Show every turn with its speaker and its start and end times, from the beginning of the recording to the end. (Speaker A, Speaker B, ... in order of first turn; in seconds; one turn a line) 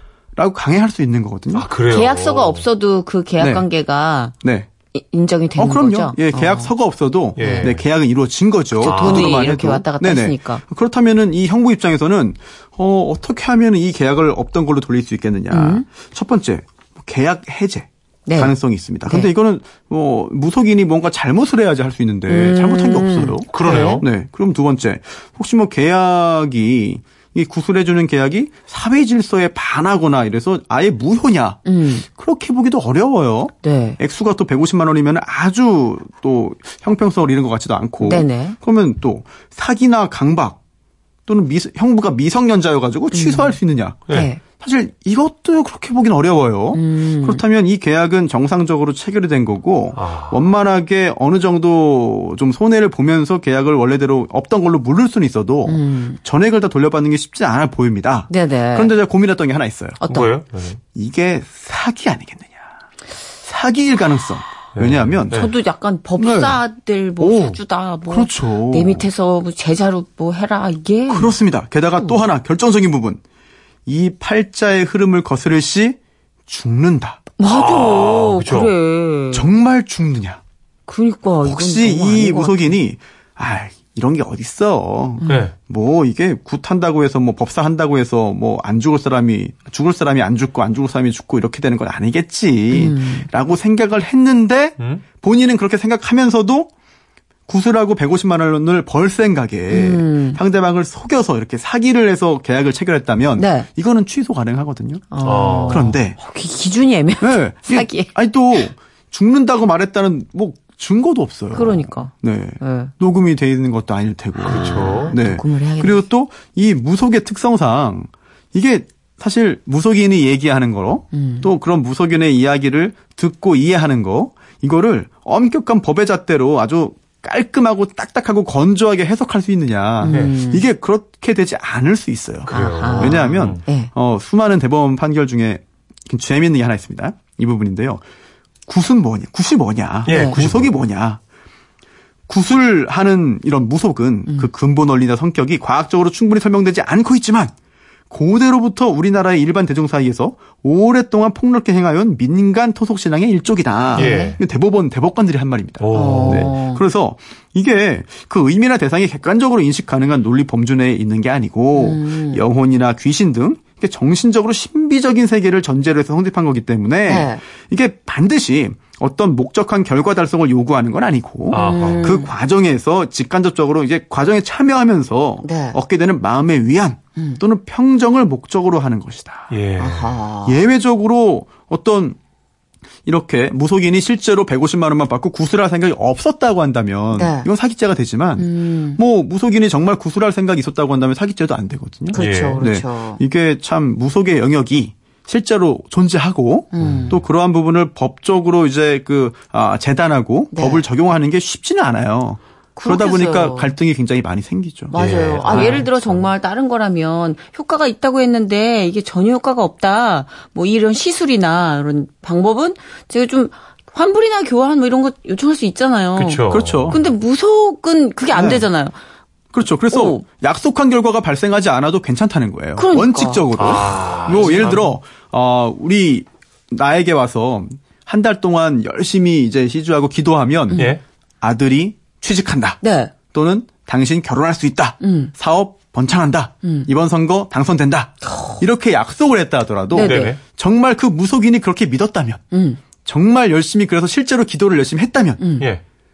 Speaker A: 0.4-1.7
Speaker B: 1.5-2.7
Speaker C: 1.9-4.3
Speaker A: 3.4-3.7
Speaker A: 4.4-4.7
Speaker C: 4.9-6.7
Speaker A: 5.6-40.6
Speaker C: 7.4-7.7
Speaker B: 7.4-7.8
Speaker C: 8.8-10.6
Speaker B: 8.8-9.4
Speaker C: 15.5-15.9
Speaker C: 18.3-19.3
Speaker C: 22.3-24.0
Speaker B: 23.5-24.1
Speaker C: 31.7-32.0
Speaker C: 33.6-34.0
Speaker C: 38.0-38.6
Speaker A: 41.3-60.0
Speaker C: 43.1-43.6
Speaker C: 44.1-44.4
Speaker C: 46.7-47.4
Speaker B: 50.0-50.4
Speaker C: 55.7-56.2
Speaker C: 58.3-58.9
Speaker C: 60.0-60.3
Speaker B: 60.1-60.8
Speaker A: 60.9-62.7
Speaker A: 63.4-65.5
Speaker B: 64.8-65.5
Speaker C: 65.3-71.4
Speaker A: 66.2-66.6
Speaker A: 67.2-69.1
Speaker A: 71.1-73.2
Speaker C: 72.0-72.3
Speaker A: 73.9-77.2
Speaker C: 77.4-79.5
Speaker B: 77.4-78.7
Speaker A: 79.3-80.4
Speaker C: 80.9-82.8
Speaker A: 81.4-96.7
Speaker C: 85.2-85.5
Speaker B: 85.3-85.5
Speaker C: 92.7-93.3
Speaker B: 94.8-95.0
Speaker A: 97.5-106.2
Speaker C: 99.7-100.4
Speaker C: 103.4-103.7
Speaker C: 105.1-108.1
Speaker B: 105.2-106.0
Speaker A: 107.2-138.0
Speaker C: 111.5-112.9
Speaker B: 114.5-115.2
Speaker C: 114.5-116.0
Speaker C: 121.1-121.5
Speaker C: 130.0-130.7
Speaker B: 130.1-130.3
Speaker B: 132.5-133.6
Speaker C: 132.5-133.9
Speaker A: 138.7-141.2
Speaker C: 140.1-140.4
Speaker B: 140.1-140.7
Speaker A: 142.3-147.5
Speaker A: 148.1-179.5
Speaker C: 153.9-154.4
Speaker B: 153.9-154.4
Speaker B: 155.8-156.5
Speaker C: 155.9-156.8
Speaker C: 161.8-162.4
Speaker C: 167.1-167.4
Speaker B: 171.5-172.1
Speaker C: 171.5-172.3
Speaker C: 175.4-175.8
Speaker B: 179.5-180.2
Speaker C: 179.8-180.6
Speaker A: 180.4-182.2
Speaker A: 183.1-205.8
Speaker C: 187.1-187.5
Speaker C: 188.4-189.0
Speaker B: 192.1-192.6
Speaker C: 192.1-193.2
Speaker C: 196.7-197.2
Speaker B: 196.8-197.2
Speaker C: 200.5-200.9
Speaker C: 202.8-203.7
Speaker C: 204.9-219.0
Speaker B: 204.9-206.3
Speaker B: 216.2-217.0
Speaker A: 216.5-217.0
Speaker A: 218.3-218.7
Speaker A: 219.5-232.8
Speaker C: 219.9-220.2
Speaker C: 222.8-223.8
Speaker B: 223.6-225.0
Speaker C: 224.3-224.8
Speaker C: 230.7-231.0
Speaker B: 230.8-231.0
Speaker C: 232.8-233.1
Speaker A: 233.3-242.4
Speaker C: 235.0-235.3
Speaker C: 236.6-236.9
Speaker C: 238.2-238.6
Speaker C: 239.9-240.4
Speaker B: 240.0-240.4
Speaker C: 242.5-242.8
Speaker A: 243.1-245.4
Speaker C: 245.4-245.7